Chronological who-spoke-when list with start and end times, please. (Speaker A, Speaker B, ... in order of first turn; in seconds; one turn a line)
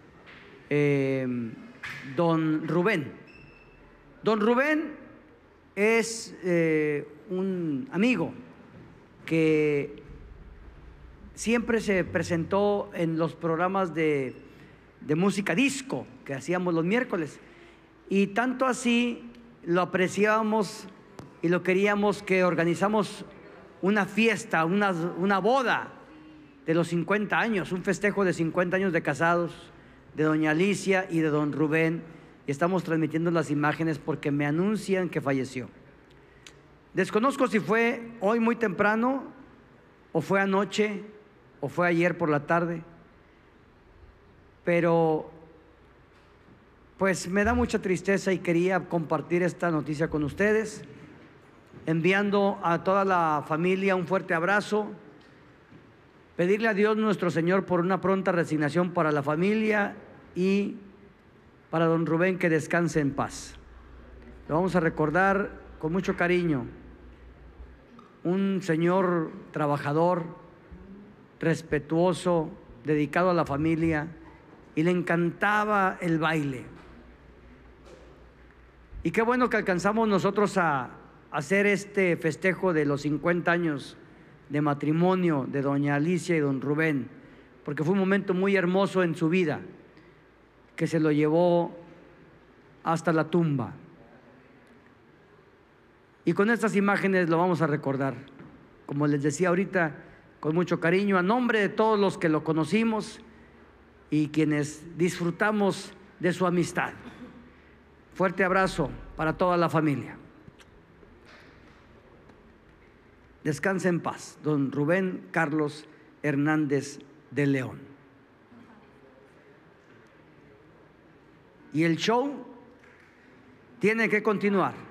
Speaker A: 0.7-3.1
Speaker A: 4.2-5.0
Speaker A: 5.8-8.3
Speaker A: 9.3-10.0
Speaker A: 11.3-14.4
Speaker A: 15.0-17.4
Speaker A: 18.1-20.9
Speaker A: 21.4-23.3
Speaker A: 23.8-25.9
Speaker A: 26.7-35.7
Speaker A: 36.9-39.3
Speaker A: 40.1-41.1
Speaker A: 41.6-42.8
Speaker A: 44.6-45.4
Speaker A: 47.0-50.9
Speaker A: 51.9-55.0
Speaker A: 56.4-60.8
Speaker A: 61.7-63.6
Speaker A: 64.5-66.7
Speaker A: 68.2-70.4
Speaker A: 71.4-74.1
Speaker A: 74.8-76.7
Speaker A: 79.0-84.0
Speaker A: 84.5-87.1
Speaker A: 87.6-89.7
Speaker A: 90.8-91.8
Speaker A: 92.8-93.8
Speaker A: 96.2-98.3
Speaker A: 98.9-103.2
Speaker A: 104.1-107.0
Speaker A: 108.1-110.2
Speaker A: 113.4-117.9
Speaker A: 121.7-122.5
Speaker A: 123.8-124.8